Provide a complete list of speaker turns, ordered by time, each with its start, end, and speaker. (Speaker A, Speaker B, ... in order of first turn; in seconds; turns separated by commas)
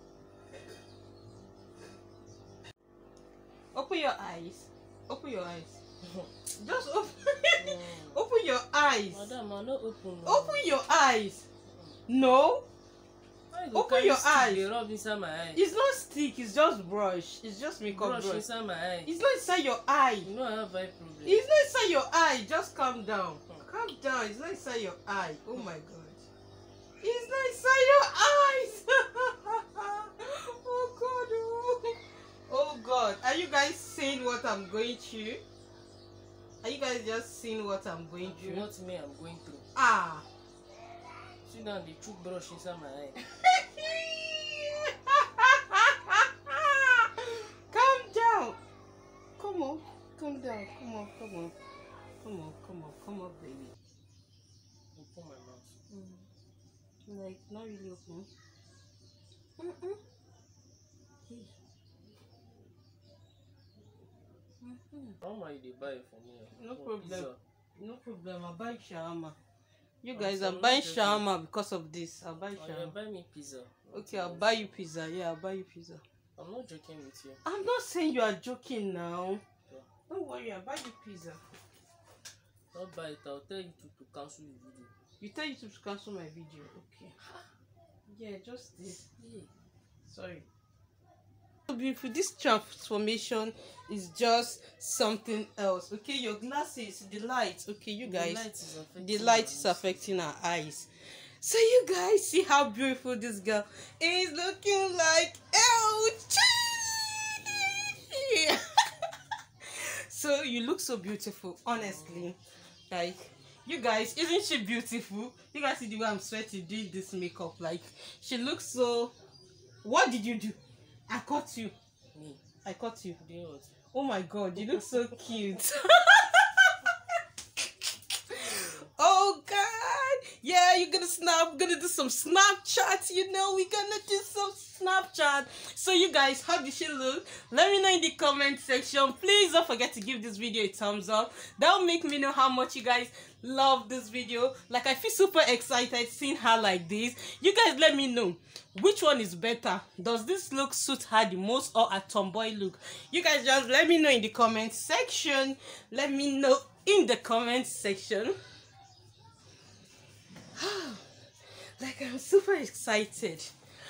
Speaker A: 3.7-5.8, Speaker A: 6.5-9.3, Speaker B: 7.6-8.2, Speaker B: 9.1-10.7, Speaker A: 10.2-11.5, Speaker A: 12.1-12.7, Speaker B: 13.5-15.6, Speaker A: 13.7-14.7, Speaker A: 15.6-18.4, Speaker B: 17.9-19.1, Speaker A: 19.1-20.3, Speaker B: 20.2-21.4, Speaker A: 21.2-26.2, Speaker A: 27.0-35.4, Speaker A: 36.6-38.7, Speaker B: 38.2-39.6, Speaker A: 39.8-40.2, Speaker B: 41.5-43.2, Speaker A: 43.3-48.6, Speaker A: 49.4-51.5, Speaker A: 52.2-53.8, Speaker B: 55.0-55.7, Speaker A: 55.9-56.2, Speaker A: 57.1-58.3, Speaker A: 59.6-60.0, Speaker A: 64.6-65.2, Speaker B: 65.2-67.4, Speaker A: 66.5-69.4, Speaker A: 70.0-72.9, Speaker B: 70.1-71.3, Speaker B: 72.5-74.9, Speaker A: 73.9-76.0, Speaker B: 76.4-77.4, Speaker A: 77.5-79.4, Speaker A: 80.1-81.4, Speaker B: 82.7-84.9, Speaker A: 85.2-87.2, Speaker A: 88.1-89.1, Speaker B: 89.2-89.5, Speaker A: 90.1-90.5, Speaker A: 91.7-98.5, Speaker B: 98.0-100.2, Speaker A: 99.0-108.6, Speaker A: 109.8-112.4, Speaker B: 111.7-112.3, Speaker A: 112.9-119.1, Speaker A: 119.8-120.6, Speaker A: 121.1-121.7, Speaker B: 122.1-122.4, Speaker A: 122.6-123.2, Speaker B: 123.2-123.7, Speaker A: 123.9-126.9, Speaker A: 128.3-158.4, Speaker B: 128.3-128.9, Speaker A: 160.6-161.1, Speaker A: 161.8-163.5